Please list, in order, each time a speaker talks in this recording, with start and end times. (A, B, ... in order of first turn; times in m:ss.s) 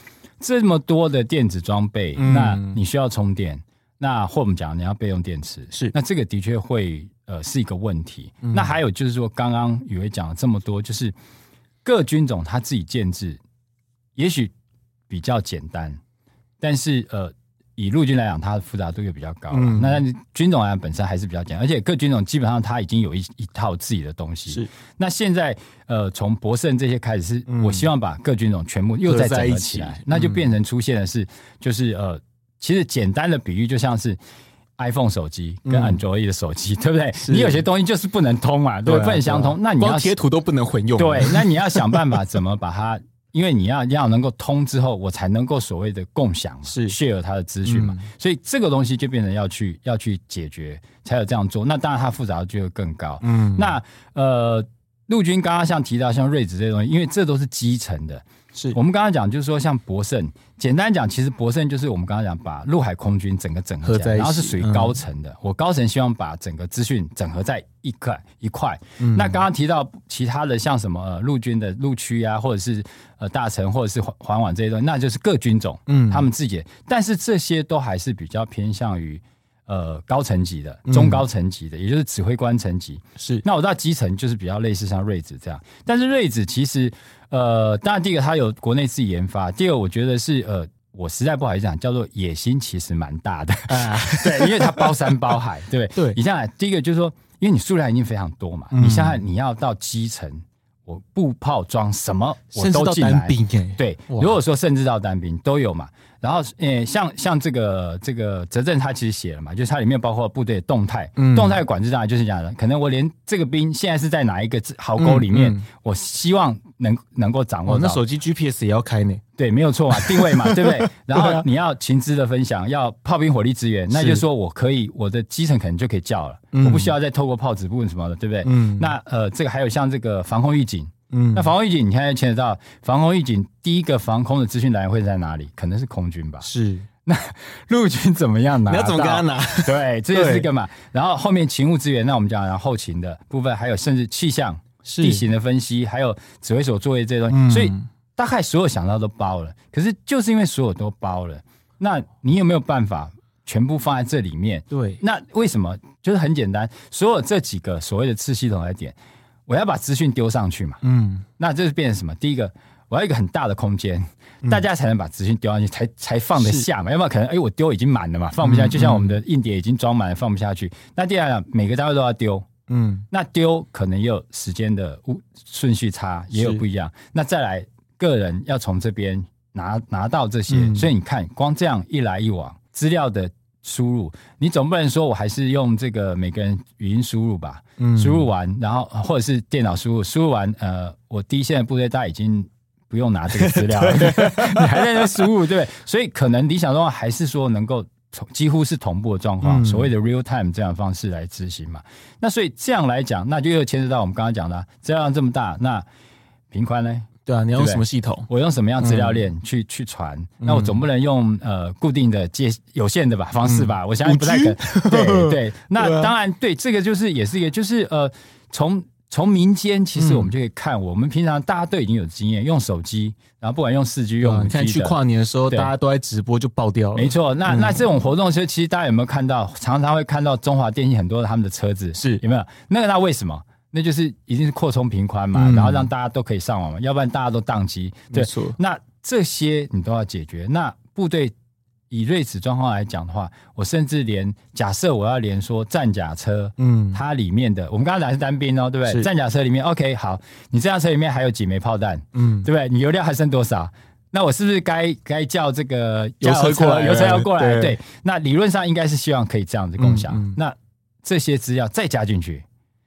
0:00.4-0:11.1 A
0:02.2-0:02.8 B
0:08.4-0:08.7 B
0:11.8-0:13.4 A
0:14.1-0:14.5 A
0:15.1-0:16.0 A
0:16.6-0:34.2 A
0:19.5-0:20.0 B
0:27.5-0:27.9 B
0:29.0-0:30.5 B
0:34.8-0:40.1 A
0:35.6-0:36.0 B
0:37.2-0:37.6 B
0:38.9-0:42.1 B
0:41.0-1:58.0 A
0:46.6-0:47.0 B
0:47.6-0:48.1 B
0:53.2-0:53.8 B
1:03.8-1:05.0 B
1:09.0-1:09.4 B
1:15.9-1:16.3 B
1:20.9-1:21.2 B
1:23.2-1:23.4 B
1:33.7-1:35.3 B
1:38.7-1:39.2 B
1:42.5-1:44.4 B
1:51.2-1:51.6 B
1:55.0-1:55.6 B
1:57.6-1:59.2 B
1:59.4-2:16.5 A
1:59.9-2:01.4 B
2:03.9-2:04.2 B
2:06.5-2:06.9 B
2:08.4-2:08.9 B
2:11.1-2:11.5 B
2:16.4-2:16.9 B
2:17.1-2:39.0 A
2:18.6-2:20.5 B
2:24.8-2:25.2 B
2:27.3-2:27.9 B
2:34.7-2:35.0 B
2:39.5-2:40.8 A
2:40.8-2:41.3 B
2:41.4-2:52.5 A
2:46.4-2:46.7 B
2:48.4-2:49.2 B
2:52.7-2:53.1 B
2:53.1-3:25.8 A
2:56.3-2:56.6 B
3:00.5-3:00.9 B
3:07.8-3:08.3 B
3:13.3-3:15.3 B
3:19.4-3:19.9 B
3:26.5-3:45.0 A
3:27.2-3:28.3 B
3:28.8-3:29.2 B
3:30.4-3:30.8 B
3:33.4-3:36.1 B
3:40.0-3:40.3 B
3:44.2-3:47.9 B
3:46.9-4:01.3 A
3:51.9-3:52.2 B
3:55.4-3:55.9 B
3:58.1-3:58.6 B
4:01.9-4:22.4 A
4:06.6-4:07.0 B
4:12.1-4:12.5 B
4:16.2-4:17.8 B
4:19.8-4:20.4 B